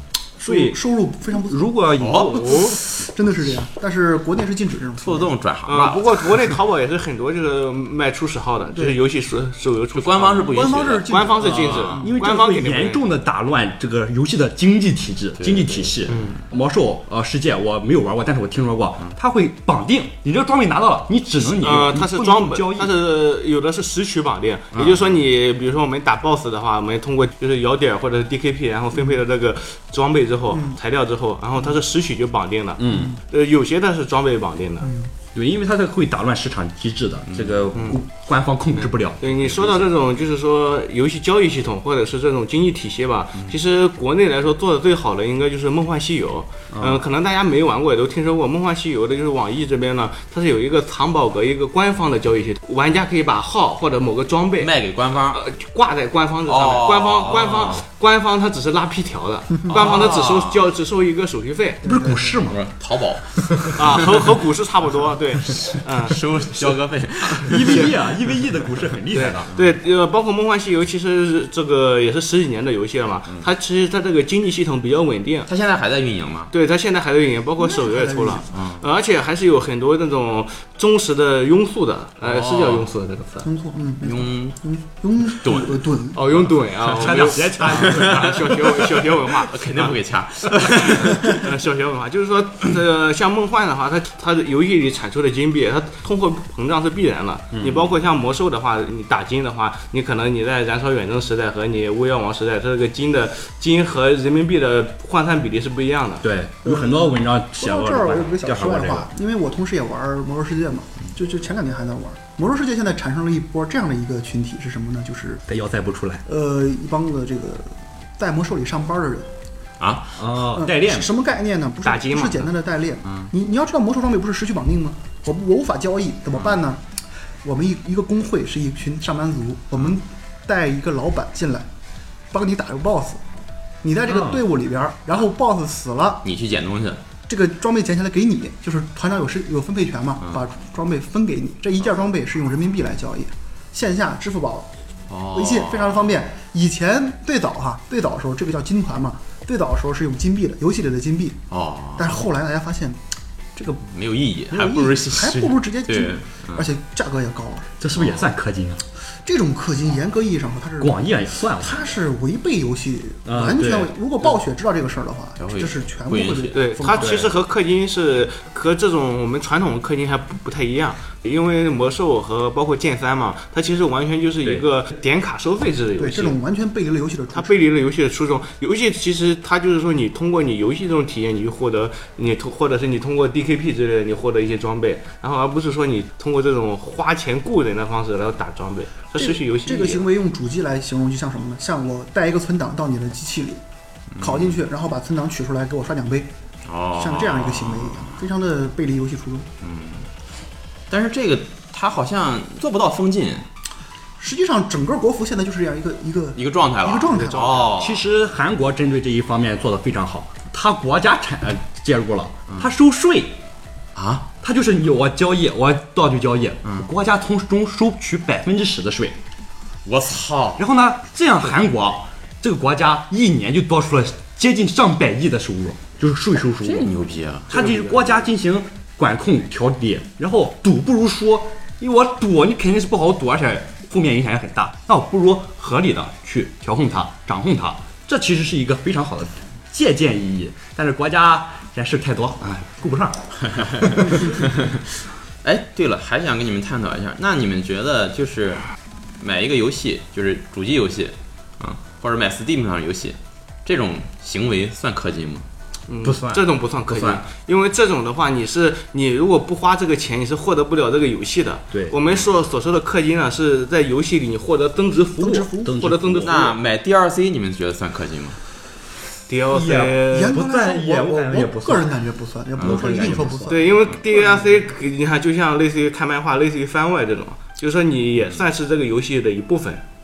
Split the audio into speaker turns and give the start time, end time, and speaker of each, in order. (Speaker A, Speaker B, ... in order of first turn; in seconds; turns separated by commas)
Speaker A: 0.4-1.7, Speaker B: 0.5-0.8, Speaker B: 1.3-2.8, Speaker C: 2.0-2.6, Speaker D: 2.4-2.8, Speaker A: 2.9-5.3, Speaker C: 5.0-6.5, Speaker D: 5.7-13.0, Speaker C: 9.9-12.1, Speaker A: 10.5-11.9, Speaker B: 11.4-23.0, Speaker C: 15.4-15.9, Speaker D: 16.1-16.4, Speaker D: 21.6-34.9, Speaker C: 24.7-25.1, Speaker A: 30.5-30.8, Speaker B: 32.8-33.1, Speaker A: 34.8-35.1, Speaker B: 35.3-39.9, Speaker C: 37.3-37.7, Speaker D: 37.7-38.0, Speaker D: 39.2-54.7, Speaker B: 46.7-47.0, Speaker C: 54.6-55.4, Speaker D: 55.3-62.0, Speaker C: 56.5-57.8, Speaker C: 59.7-60.7, Speaker A: 61.8-62.5, Speaker B: 61.8-62.6, Speaker C: 62.5-64.2, Speaker B: 63.4-64.0, Speaker D: 63.8-66.6, Speaker C: 65.6-68.0, Speaker B: 67.3-69.5, Speaker D: 69.1-75.5, Speaker C: 75.5-76.5, Speaker D: 76.5-83.5, Speaker A: 77.6-78.5, Speaker C: 78.5-78.8, Speaker C: 82.2-82.9, Speaker A: 83.5-86.2, Speaker C: 84.0-84.6, Speaker C: 85.3-85.8, Speaker D: 86.1-90.0, Speaker B: 86.8-88.7, Speaker C: 86.9-91.5, Speaker D: 90.6-106.2, Speaker B: 97.5-97.9, Speaker B: 106.2-109.1, Speaker A: 106.6-115.4, Speaker B: 115.5-116.2, Speaker A: 116.2-119.3, Speaker C: 119.8-120.2, Speaker B: 120.2-121.1, Speaker A: 120.5-126.8, Speaker D: 121.8-122.5, Speaker C: 126.3-126.6, Speaker A: 127.4-131.7, Speaker A: 132.3-133.2, Speaker A: 133.8-136.2, Speaker B: 134.1-134.4, Speaker C: 136.2-137.0, Speaker A: 137.3-144.7, Speaker C: 145.1-146.1, Speaker A: 145.3-151.4, Speaker C: 151.5-152.2, Speaker A: 152.0-153.0, Speaker C: 153.8-156.7, Speaker A: 154.5-157.7, Speaker B: 157.8-158.8, Speaker C: 157.9-158.3, Speaker A: 159.2-161.0, Speaker B: 160.8-161.8, Speaker A: 161.5-167.2, Speaker B: 163.2-163.9, Speaker C: 165.4-166.7, Speaker D: 166.5-176.4, Speaker B: 167.0-167.3, Speaker A: 176.0-177.6, Speaker D: 177.3-190.1, Speaker A: 189.2-193.6, Speaker C: 194.1-194.6, Speaker A: 194.2-196.3, Speaker C: 196.7-198.2, Speaker A: 196.9-199.5, Speaker C: 199.6-200.1, Speaker C: 200.9-203.5, Speaker A: 204.2-207.8, Speaker C: 206.4-208.0, Speaker B: 207.8-213.4, Speaker C: 214.0-214.3, Speaker B: 214.4-219.2, Speaker C: 219.8-220.6, Speaker B: 220.6-226.9, Speaker C: 226.6-227.6, Speaker B: 227.5-244.3, Speaker C: 243.5-244.8, Speaker C: 245.4-248.6, Speaker C: 249.2-255.5, Speaker D: 255.9-266.6, Speaker B: 256.0-257.2, Speaker B: 261.7-262.0, Speaker A: 265.2-265.9, Speaker B: 265.6-266.4, Speaker C: 266.2-268.4, Speaker D: 269.3-270.4, Speaker B: 269.5-272.1, Speaker A: 270.1-274.4, Speaker C: 272.6-273.3, Speaker B: 272.6-273.7, Speaker D: 273.5-279.8